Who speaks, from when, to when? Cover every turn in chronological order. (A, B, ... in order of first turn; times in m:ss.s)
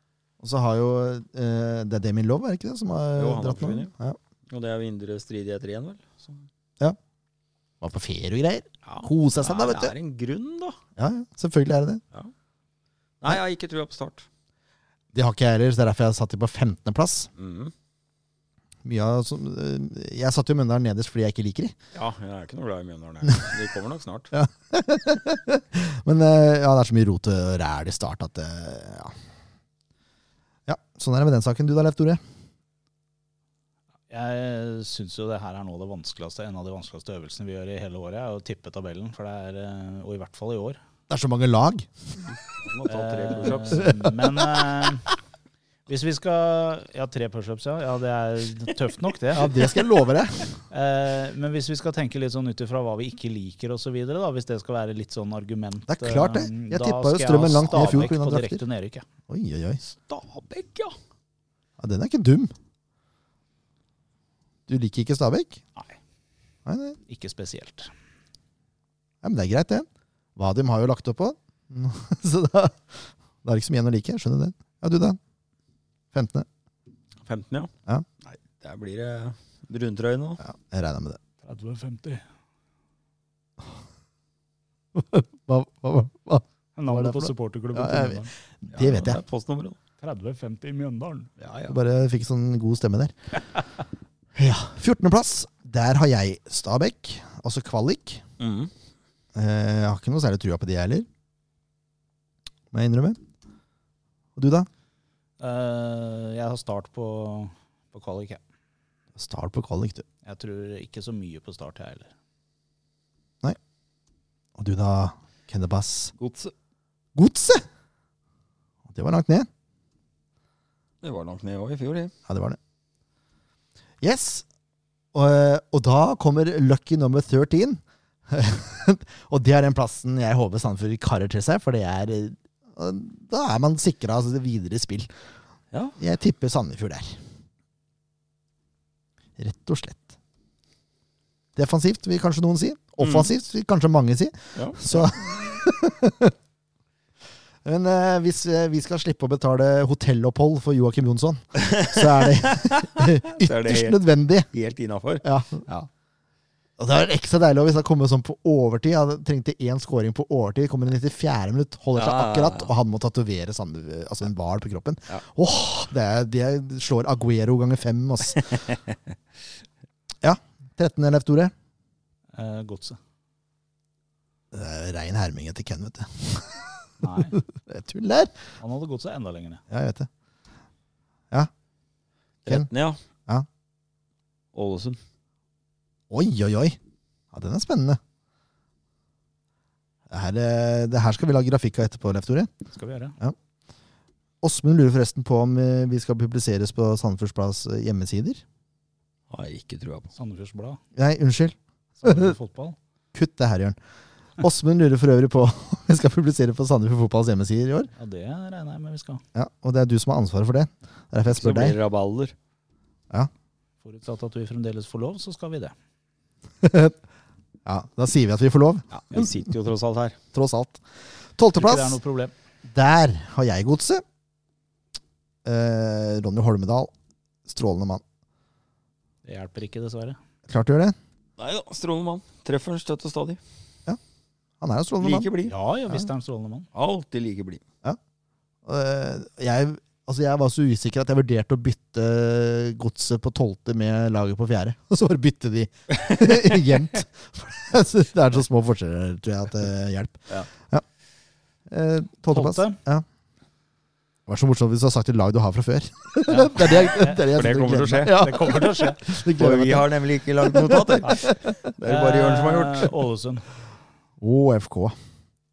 0:00.4-0:04.2 A
0:03.2-0:03.9 B
0:04.5-0:06.5 B
0:07.8-0:10.0 A
0:08.8-0:10.8 B
0:11.0-0:12.0 A
0:13.2-0:14.3 B
0:15.1-0:17.3 A
0:17.4-0:17.7 B
0:18.8-0:21.8 A
0:21.9-0:24.3 B
0:24.3-0:29.2 A
0:30.7-0:32.2 A
0:34.1-0:40.8 C
0:41.1-0:42.2 A
0:42.6-0:43.9 B
0:42.8-0:45.1 C
0:43.7-0:44.7 A
0:45.9-0:49.6 C
0:49.3-0:50.5 A
0:50.7-0:59.0 C
0:55.9-0:58.6 A
0:59.3-0:59.8 A
0:59.9-1:01.0 B
1:01.8-1:02.5 A
1:04.7-1:05.6 A
1:06.7-1:07.0 A
1:07.1-1:07.9 C
1:09.2-1:15.2 A
1:16.1-1:16.5 A
1:17.2-1:17.7 B
1:18.2-1:20.4 B
1:20.4-1:21.2 A
1:21.4-1:22.2 C
1:24.9-1:29.2 A
1:26.8-1:28.3 C
1:28.7-1:29.8 B
1:30.0-1:31.3 C
1:31.4-1:31.8 B
1:31.7-1:33.1 A
1:34.4-1:38.2 A
1:38.4-1:38.7 B
1:39.4-1:41.1 A
1:42.7-1:43.2 A
1:44.4-1:44.7 A
1:45.4-1:48.4 C
1:49.2-1:50.0 A
1:50.2-1:52.1 C
1:54.6-1:56.1 A
1:56.2-1:56.5 B
1:57.2-1:57.6 A
1:58.9-1:59.5 A
2:01.0-2:02.1 B
2:02.3-2:02.6 A
2:04.0-2:04.4 A
2:05.1-2:15.1 A
2:16.0-2:17.2 A
2:19.4-2:20.2 A
2:21.6-2:26.3 A
2:23.0-2:23.3 B
2:24.6-2:25.4 B
2:27.6-2:34.5 A
2:31.6-2:35.9 B
2:35.2-2:35.7 A
2:36.8-2:48.4 A
2:42.0-2:42.7 B
2:50.2-2:51.5 A
2:52.3-2:53.0 C
2:54.5-2:58.4 A
2:57.0-2:57.4 C
2:58.6-2:59.6 C
2:59.7-3:00.1 A
3:02.4-3:03.0 B
3:04.5-3:05.0 B
3:06.1-3:06.8 A
3:07.3-3:08.0 A
3:10.1-3:12.5 A
3:12.7-3:13.2 C
3:14.4-3:18.4 A
3:19.3-3:20.1 B
3:20.2-3:20.8 C
3:21.0-3:22.4 A
3:22.0-3:22.8 C
3:23.1-3:23.8 A
3:24.4-3:27.9 A
3:28.0-3:29.2 C
3:29.4-3:31.8 A
3:31.3-3:32.4 B
3:33.8-3:35.7 C
3:36.6-3:37.0 A
3:37.7-3:39.4 A
3:38.9-3:40.2 B
3:40.3-3:40.8 A
3:41.4-3:42.0 A
3:41.6-3:42.3 C
3:42.6-3:44.0 A
3:45.4-3:46.9 A
3:47.5-3:48.0 A
3:49.2-3:50.2 C
3:50.5-3:51.0 A
3:51.4-3:53.4 B
3:54.6-3:55.3 A
3:55.0-3:55.5 B
3:55.4-3:56.7 C
3:56.7-3:57.6 B
3:58.6-4:10.8 A
4:11.7-4:13.0 A
4:12.3-4:12.8 C
4:14.3-4:21.6 A
4:16.3-4:17.2 C
4:16.7-4:18.3 B
4:18.0-4:19.0 C
4:19.2-4:23.0 B
4:21.8-4:23.5 C
4:24.2-4:25.0 A